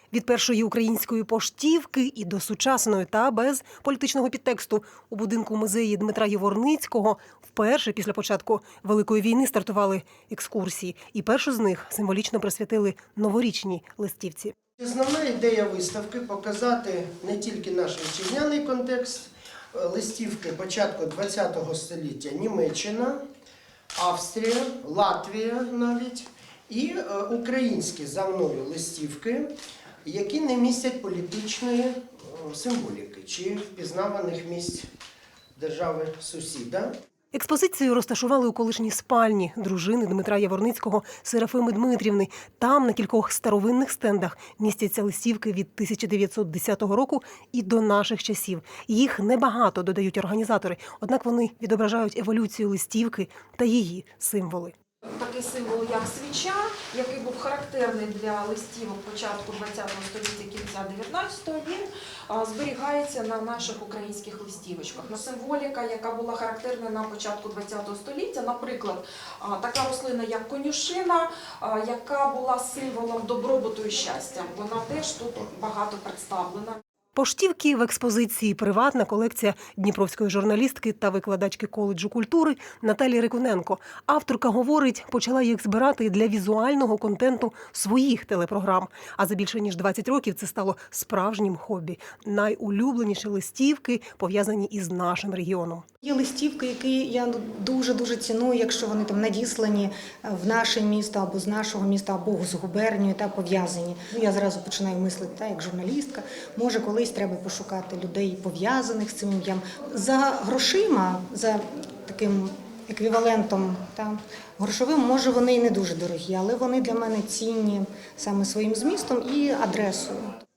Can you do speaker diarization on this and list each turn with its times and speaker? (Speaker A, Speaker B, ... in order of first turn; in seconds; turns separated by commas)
Speaker A: 0.1-14.5, Speaker B: 14.8-23.2, Speaker B: 23.9-29.5, Speaker B: 30.0-34.9, Speaker B: 35.5-36.9, Speaker A: 37.3-54.7, Speaker C: 55.1-76.8, Speaker A: 77.1-95.8, Speaker D: 96.0-120.3